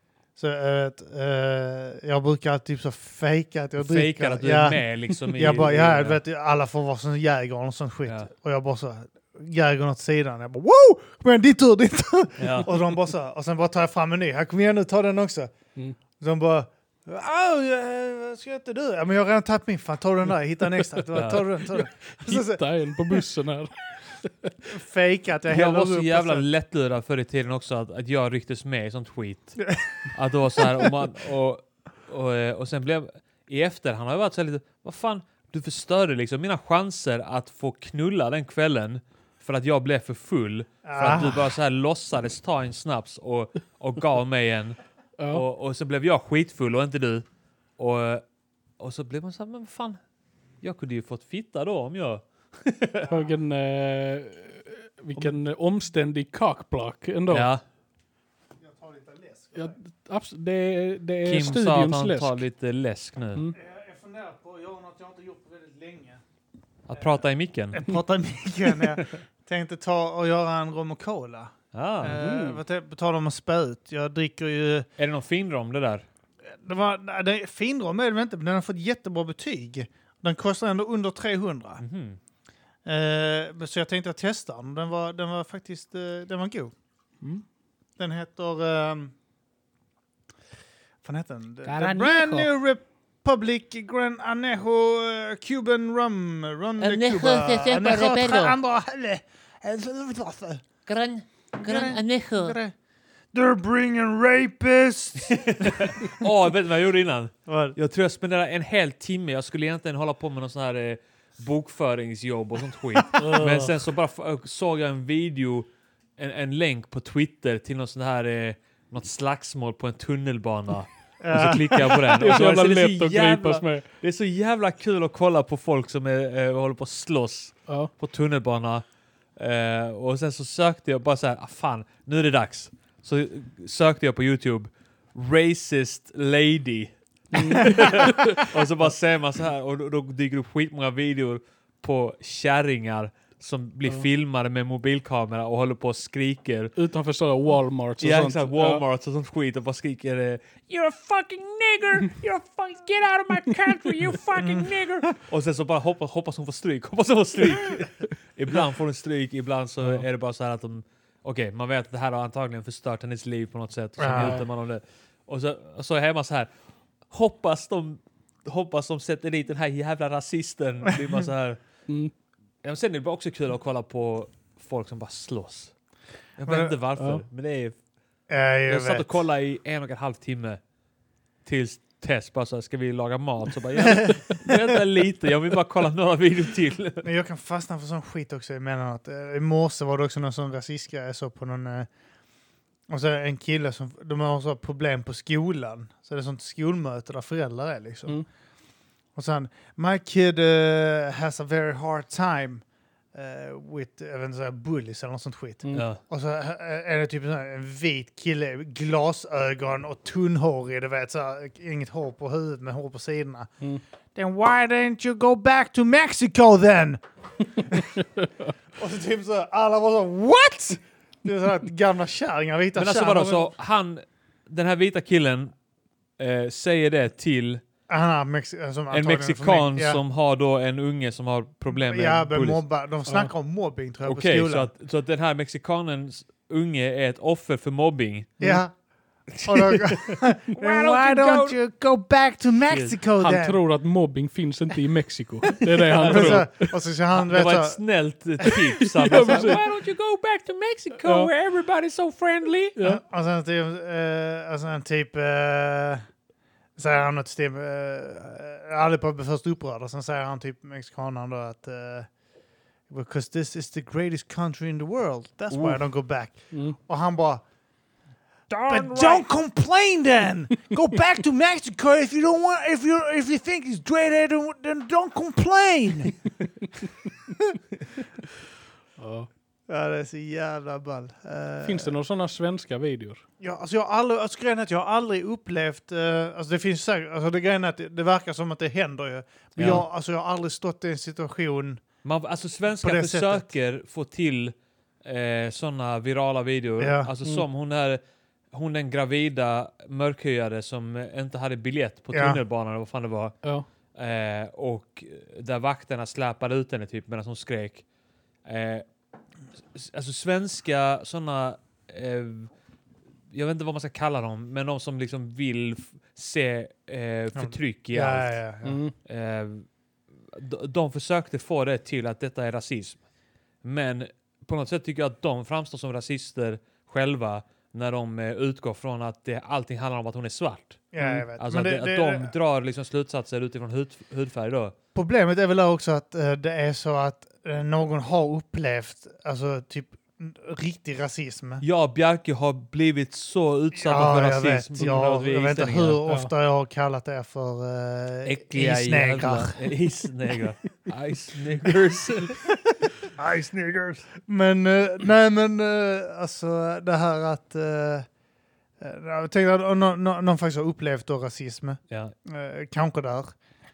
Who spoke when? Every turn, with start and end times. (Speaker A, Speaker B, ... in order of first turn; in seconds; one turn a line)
Speaker A: 0.3-15.5
Speaker B: 3.8-6.2
Speaker B: 12.4-12.7
Speaker A: 16.2-22.6
Speaker B: 21.1-21.4
Speaker C: 21.7-24.5
Speaker A: 24.7-26.4
Speaker B: 25.5-44.8
Speaker A: 40.8-41.5
Speaker C: 45.2-45.4
Speaker B: 45.3-47.2
Speaker B: 47.8-48.2
Speaker B: 48.8-50.0
Speaker B: 50.6-53.1
Speaker C: 53.0-57.5
Speaker B: 57.3-57.6
Speaker A: 58.6-59.7
Speaker C: 59.5-62.4
Speaker B: 61.2-63.5
Speaker A: 63.5-66.2
Speaker B: 66.9-67.9
Speaker A: 67.7-74.8
Speaker B: 71.7-72.2
Speaker C: 72.0-72.6
Speaker B: 75.0-76.0
Speaker A: 76.6-81.8
Speaker B: 81.8-82.2
Speaker A: 82.8-86.7
Speaker A: 88.0-89.1
Speaker A: 91.0-100.6
Speaker D: 91.7-92.5
Speaker D: 96.8-98.5
Speaker D: 100.9-102.5
Speaker A: 101.6-102.7
Speaker A: 103.3-106.1
Speaker B: 105.3-128.8
Speaker A: 107.5-107.8
Speaker C: 113.1-113.7
Speaker A: 121.2-122.0
Speaker C: 122.1-123.8
Speaker B: 129.3-146.7
Speaker C: 137.3-138.4
Speaker C: 146.8-148.8
Speaker B: 148.0-166.5
Speaker A: 154.3-155.1
Speaker A: 164.0-164.4
Speaker B: 167.1-171.6
Speaker C: 171.9-172.1
Speaker B: 172.6-175.7
Speaker B: 176.4-177.7
Speaker A: 176.5-176.7
Speaker C: 176.9-177.2
Speaker A: 178.3-179.1
Speaker B: 178.7-180.6
Speaker B: 181.4-187.1
Speaker A: 183.8-184.6
Speaker A: 187.0-191.9
Speaker A: 192.9-198.2
Speaker A: 199.2-213.5
Speaker B: 205.7-206.0
Speaker A: 214.1-217.0
Speaker A: 217.6-218.0
Speaker A: 218.8-223.5
Speaker B: 222.8-225.5
Speaker B: 226.2-227.6
Speaker A: 227.9-230.0
Speaker B: 228.9-232.6
Speaker A: 231.7-234.7
Speaker B: 234.1-238.4
Speaker A: 238.4-238.7
Speaker B: 239.3-241.6
Speaker A: 239.4-243.6
Speaker B: 242.7-242.9
Speaker C: 243.2-246.7
Speaker B: 245.9-246.4
Speaker A: 246.0-247.8
Speaker B: 247.1-252.8
Speaker C: 248.8-249.6
Speaker C: 251.0-251.3
Speaker C: 252.8-253.0
Speaker A: 252.8-256.0
Speaker A: 256.8-262.1
Speaker A: 262.9-267.4
Speaker B: 265.5-265.8
Speaker B: 268.5-269.2
Speaker A: 268.7-276.2
Speaker C: 279.0-279.3
Speaker A: 279.7-281.9
Speaker C: 281.6-283.2
Speaker A: 283.4-291.8
Speaker B: 289.6-289.8
Speaker B: 292.0-298.0
Speaker A: 292.8-293.5
Speaker A: 296.8-297.1
Speaker B: 298.5-303.4
Speaker A: 302.1-302.4
Speaker B: 303.9-307.8
Speaker B: 308.4-308.8
Speaker B: 309.7-312.5
Speaker B: 313.3-318.4
Speaker A: 317.4-318.8
Speaker C: 318.6-318.9
Speaker B: 319.1-319.7
Speaker B: 320.3-323.0
Speaker B: 323.6-334.7
Speaker A: 330.9-332.3
Speaker C: 331.0-331.2
Speaker A: 334.9-341.6
Speaker B: 341.6-346.0
Speaker A: 343.7-349.5
Speaker C: 346.1-346.3
Speaker B: 348.2-352.4
Speaker A: 353.2-358.1
Speaker A: 358.8-363.3
Speaker B: 361.9-362.1